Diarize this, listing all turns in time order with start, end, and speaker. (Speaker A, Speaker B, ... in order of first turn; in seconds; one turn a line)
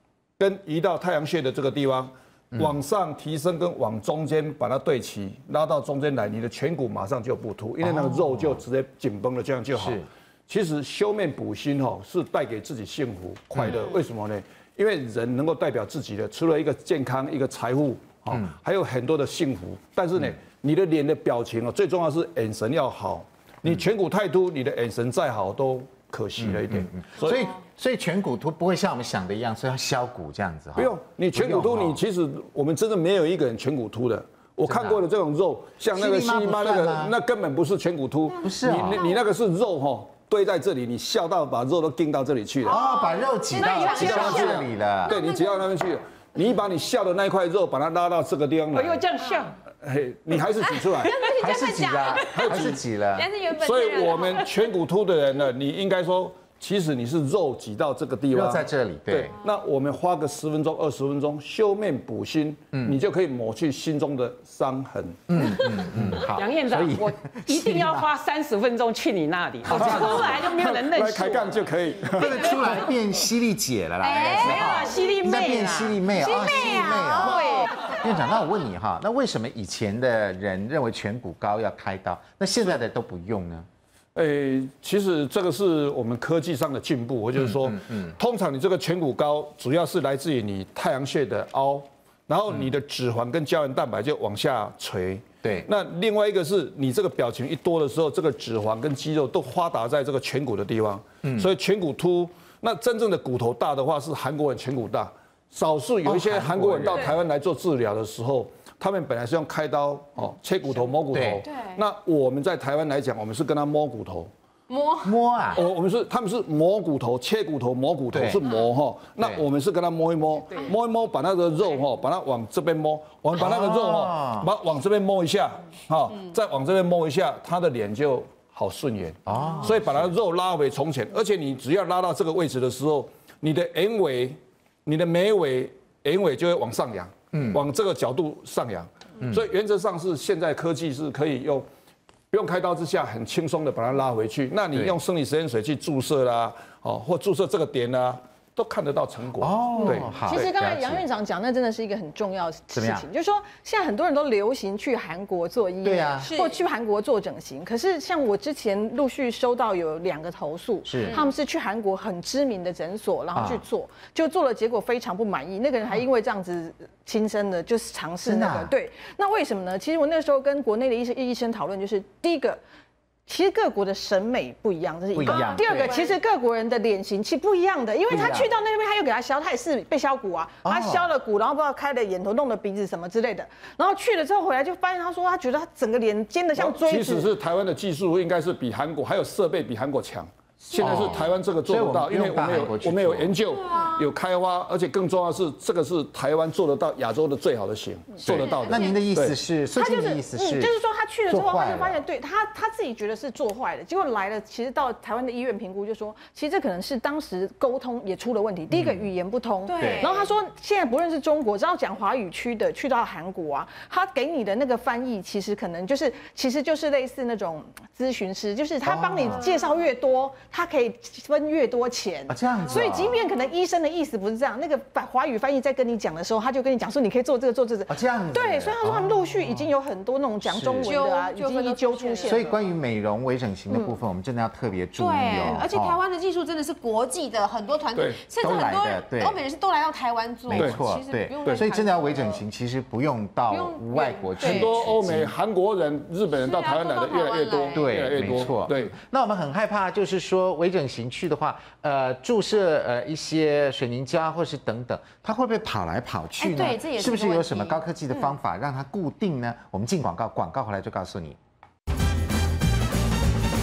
Speaker A: 0.4-27.5
Speaker B: 7.8-8.6
Speaker B: 9.7-10.1
Speaker B: 13.5-13.8
Speaker B: 26.4-32.0
Speaker A: 30.8-42.8
Speaker B: 34.6-35.0
Speaker B: 35.9-37.1
Speaker C: 38.3-39.2
Speaker B: 38.4-39.1
Speaker C: 42.6-45.7
Speaker B: 42.6-45.2
Speaker A: 43.6-49.0
Speaker D: 48.7-49.5
Speaker A: 49.8-51.1
Speaker C: 50.5-54.7
Speaker B: 51.4-53.3
Speaker A: 52.3-52.8
Speaker A: 53.5-66.2
Speaker B: 58.3-59.3
Speaker B: 62.7-63.0
Speaker B: 65.3-68.1
Speaker D: 66.2-71.6
Speaker B: 69.6-70.4
Speaker A: 69.7-72.9
Speaker B: 72.1-83.7
Speaker C: 74.0-78.0
Speaker D: 74.3-76.0
Speaker A: 77.2-77.5
Speaker A: 84.1-114.3
Speaker B: 87.4-88.2
Speaker B: 95.4-95.7
Speaker B: 101.2-101.5
Speaker B: 106.0-107.1
Speaker B: 111.1-111.5
Speaker C: 111.4-111.8
Speaker C: 114.7-115.7
Speaker B: 115.0-115.6
Speaker A: 115.5-141.7
Speaker B: 118.1-118.5
Speaker B: 119.2-119.4
Speaker B: 123.3-124.5
Speaker B: 129.2-130.1
Speaker C: 129.3-129.6
Speaker B: 137.3-137.6
Speaker B: 139.2-139.4
Speaker A: 142.3-150.2
Speaker B: 149.4-151.1
Speaker E: 149.8-172.6
Speaker B: 152.7-153.1
Speaker B: 155.8-156.3
Speaker C: 156.2-156.6
Speaker B: 160.8-161.2
Speaker C: 161.0-161.3
Speaker B: 163.3-163.6
Speaker B: 168.2-168.7
Speaker E: 173.3-187.3
Speaker B: 175.1-176.0
Speaker C: 175.3-176.1
Speaker B: 178.1-178.5
Speaker B: 180.6-181.1
Speaker A: 186.6-199.4
Speaker B: 190.7-193.3
Speaker C: 193.4-194.1
Speaker B: 198.2-200.7
Speaker C: 198.3-199.0
Speaker E: 199.7-232.6
Speaker B: 201.3-202.0
Speaker B: 208.7-209.1
Speaker C: 209.6-210.3
Speaker B: 209.8-210.1
Speaker B: 218.8-219.4
Speaker B: 222.3-223.2
Speaker B: 227.9-229.7
Speaker B: 230.4-230.9
Speaker C: 230.8-232.5
Speaker B: 232.2-236.0
Speaker C: 235.0-242.4
Speaker A: 237.9-238.2
Speaker B: 238.4-239.4
Speaker B: 240.5-245.3
Speaker A: 240.5-240.8
Speaker A: 241.4-241.7
Speaker C: 243.5-244.9
Speaker A: 244.4-248.9
Speaker C: 246.3-247.9
Speaker B: 247.7-261.4
Speaker C: 256.4-257.8